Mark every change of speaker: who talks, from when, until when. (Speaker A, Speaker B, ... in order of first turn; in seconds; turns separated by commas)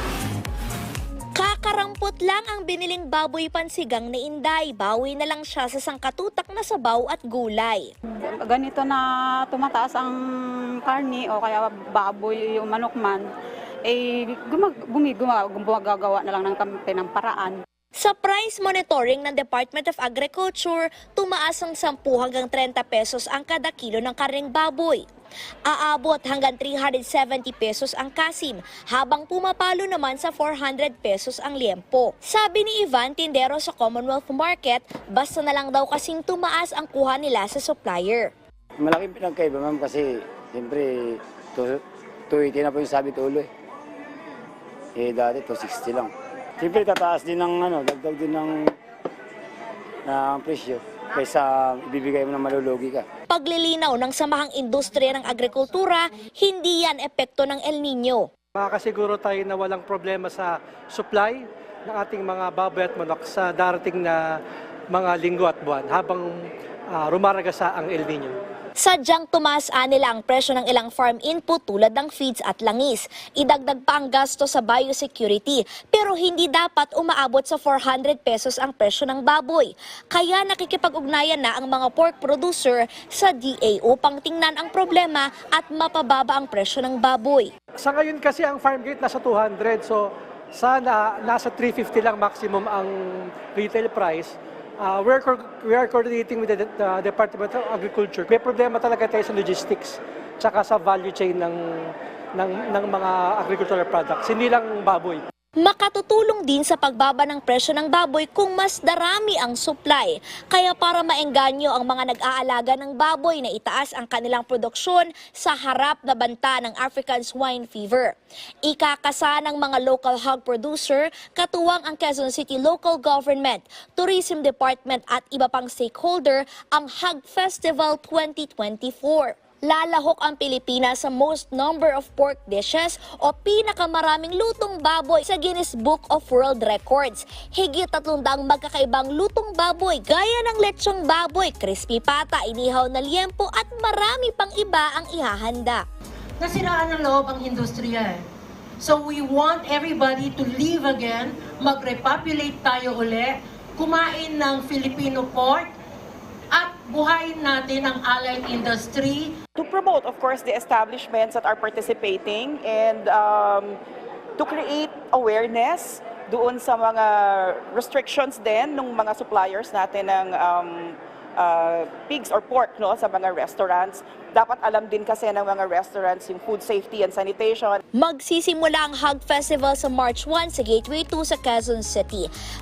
Speaker A: 1.4-7.9, Speaker B: 8.2-13.3, Speaker B: 13.8-17.6, Speaker A: 18.0-25.1, Speaker A: 25.7-38.3, Speaker C: 38.8-43.5, Speaker C: 45.0-48.7, Speaker C: 50.0-53.0, Speaker A: 53.3-58.3, Speaker D: 58.5-64.4, Speaker D: 64.9-66.4, Speaker D: 66.9-68.4, Speaker A: 68.8-87.5, Speaker D: 87.8-105.2, Speaker A: 105.6-145.8, Speaker E: 146.4-148.2, Speaker E: 148.8-155.7, Speaker E: 156.5-159.3, Speaker F: 159.6-163.8, Speaker F: 164.4-177.8, Speaker A: 177.9-182.3